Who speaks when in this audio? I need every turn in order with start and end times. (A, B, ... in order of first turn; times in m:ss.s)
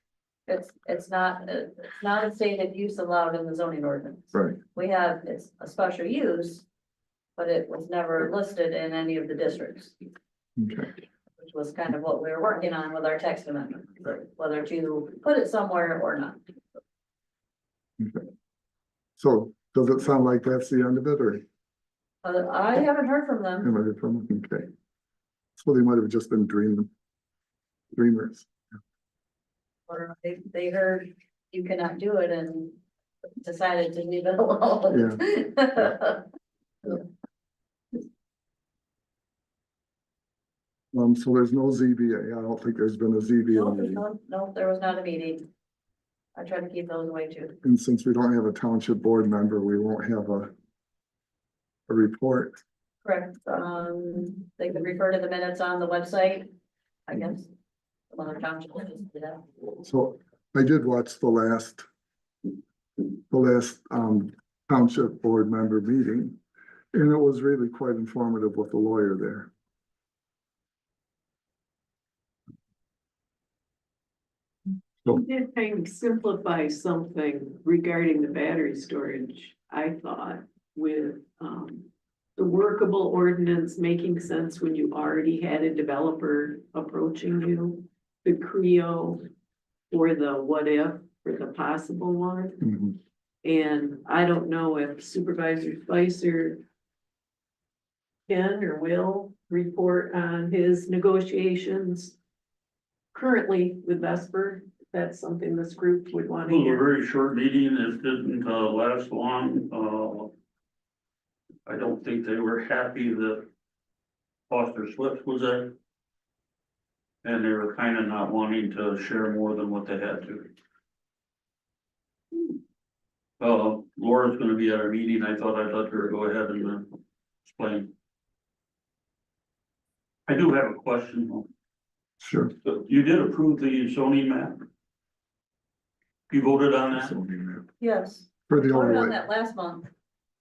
0:00.5-0:06.7 A
0:07.4-0:10.0 A
0:10.6-0:10.9 B
0:11.4-0:16.4 A
0:18.0-0:18.2 B
0:19.2-0:21.4 B
0:22.2-0:23.7 A
0:23.6-0:24.7 B
0:25.6-0:26.9 B
0:28.0-0:28.5 B
0:29.9-0:32.8 A
0:33.4-0:36.3 A
0:34.9-0:35.2 B
0:40.9-0:44.0 B
0:43.5-0:45.5 A
0:46.4-0:47.6 A
0:47.6-0:50.5 B
0:51.9-0:52.6 B
0:53.0-0:56.5 A
0:57.1-0:57.5 A
0:58.1-0:59.4 A
0:59.8-1:01.8 B
1:03.3-1:06.4 B
1:06.9-1:09.5 B
1:15.2-1:29.3 C
1:29.9-1:32.6 C
1:32.6-1:33.0 B
1:33.4-1:36.6 C
1:38.3-1:42.2 C
1:43.1-1:46.8 C
1:46.5-1:50.3 D
1:51.7-1:53.5 D
1:54.5-1:55.7 D
1:57.2-2:00.5 D
2:03.4-2:07.9 D
2:10.3-2:11.5 D
2:12.2-2:12.5 B
2:12.6-2:14.6 D
2:16.3-2:17.2 D
2:16.9-2:17.6 B
2:17.8-2:19.9 A
2:18.5-2:19.2 B